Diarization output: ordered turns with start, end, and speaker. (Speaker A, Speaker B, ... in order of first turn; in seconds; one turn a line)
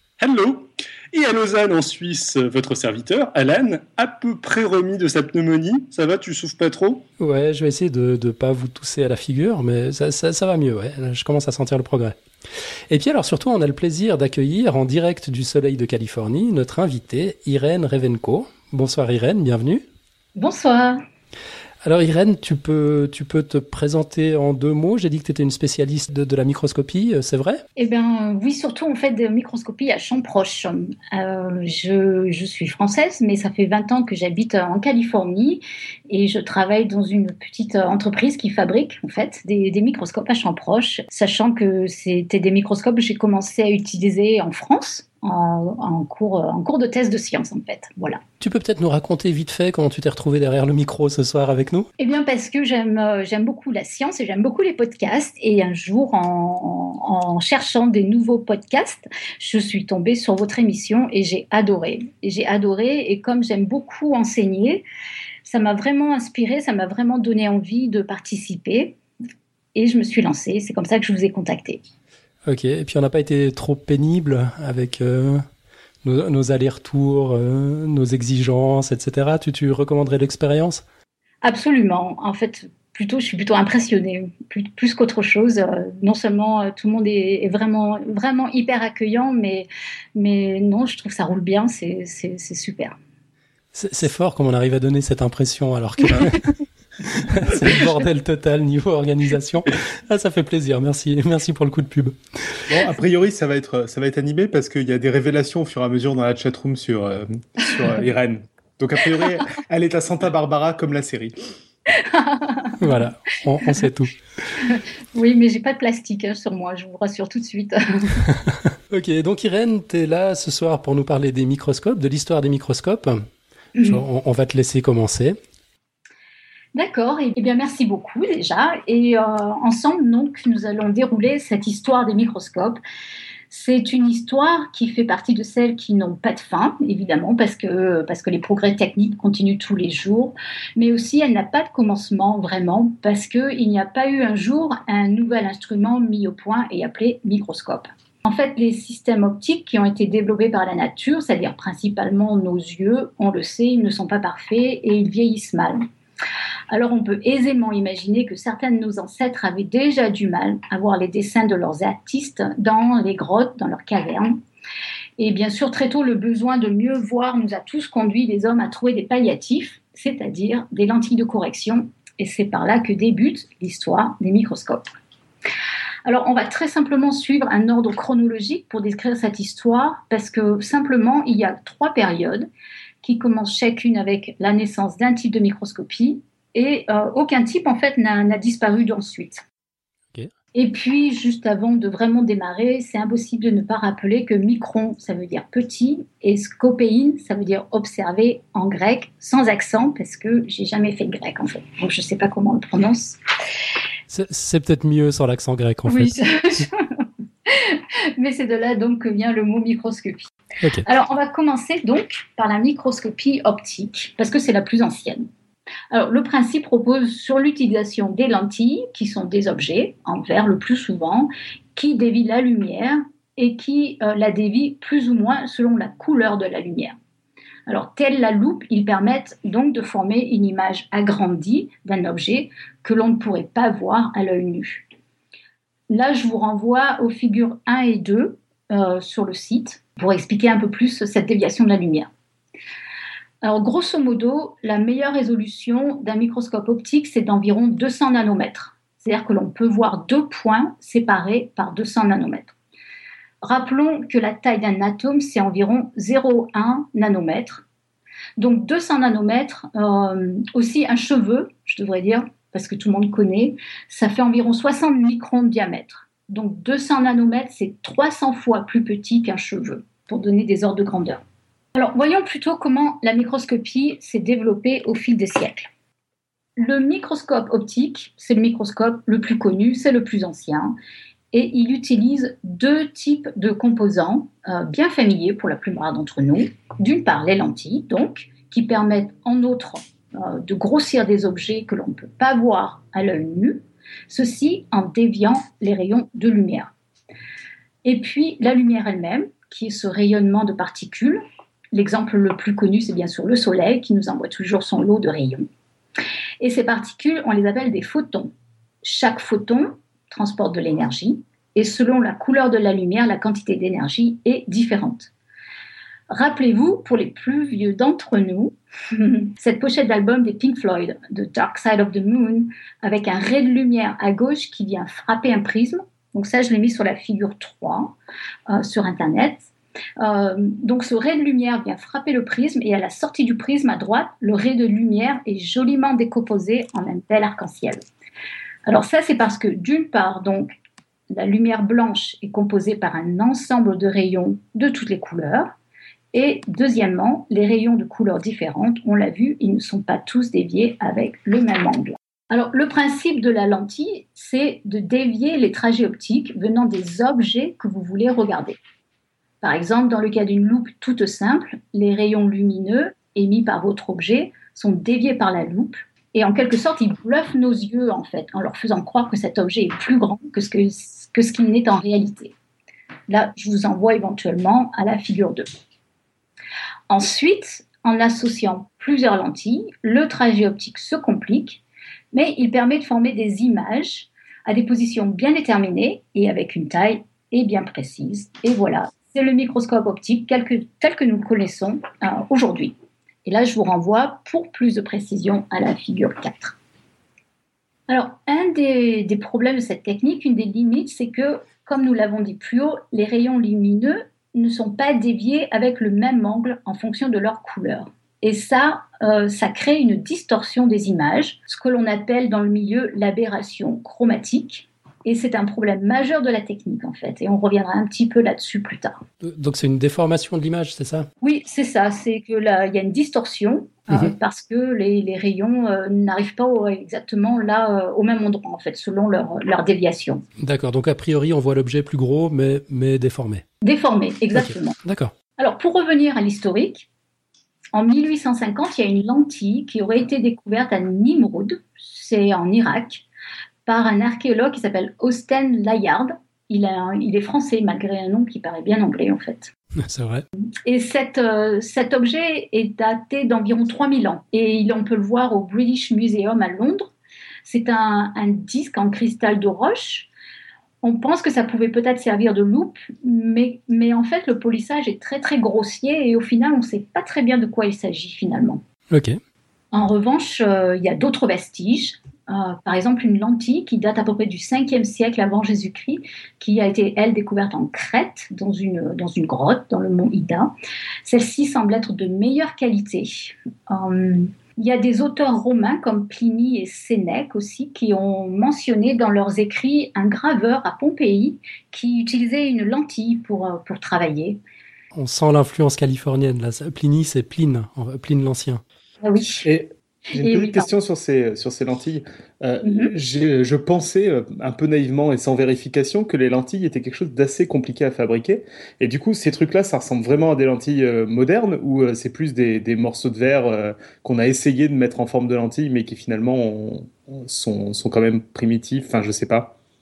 Speaker A: 0.2-7.0
Speaker B: 7.2-12.2
Speaker B: 12.9-19.8
Speaker C: 20.3-21.0
Speaker B: 21.8-27.6
Speaker C: 27.8-48.2
Speaker B: 48.4-51.9
Speaker C: 52.0-64.8
Speaker C: 65.4-69.0
Speaker C: 69.7-71.8
Speaker B: 72.5-75.4
Speaker B: 76.0-80.8
Speaker C: 81.4-93.0
Speaker B: 93.7-96.5
Speaker B: 97.1-102.6
Speaker D: 102.7-111.4
Speaker C: 111.9-112.8
Speaker B: 112.8-114.1
Speaker C: 114.6-118.3
Speaker B: 118.9-123.2
Speaker B: 123.8-125.4
Speaker C: 126.7-132.8
Speaker C: 133.5-155.8
Speaker C: 156.7-164.4
Speaker C: 165.2-174.8
Speaker C: 176.0-182.5
Speaker C: 183.0-189.4
Speaker C: 190.5-203.2
Speaker B: 204.1-206.2
Speaker C: 205.9-206.8
Speaker C: 207.4-210.3
Speaker C: 210.8-215.3
Speaker C: 215.9-227.0
Speaker C: 227.7-234.9
Speaker C: 235.9-242.1
Speaker C: 243.4-252.5
Speaker C: 253.4-257.6
Speaker C: 258.4-271.2
Speaker C: 271.8-275.7
Speaker C: 276.6-280.7
Speaker C: 281.3-296.7
Speaker C: 297.8-305.4
Speaker C: 306.4-308.3
Speaker C: 308.8-315.1
Speaker C: 316.1-327.9
Speaker C: 328.5-337.8
Speaker C: 338.7-340.5
Speaker C: 341.1-345.5
Speaker C: 346.1-358.6
Speaker C: 359.4-372.3
Speaker C: 373.1-375.5
Speaker C: 376.9-381.6
Speaker C: 382.1-396.6
Speaker C: 397.9-419.0
Speaker B: 419.2-421.1
Speaker C: 421.2-430.2
Speaker B: 430.4-433.4
Speaker C: 433.6-434.8
Speaker B: 434.3-435.1
Speaker C: 435.4-436.9
Speaker C: 437.7-443.0
Speaker C: 443.6-449.5
Speaker B: 449.8-450.2
Speaker C: 450.6-456.9
Speaker C: 457.4-460.1
Speaker C: 460.8-468.6
Speaker B: 468.9-469.2
Speaker C: 469.7-494.4
Speaker B: 494.9-498.6
Speaker C: 499.0-499.4
Speaker D: 499.4-519.5
Speaker C: 500.1-500.7
Speaker C: 502.6-502.9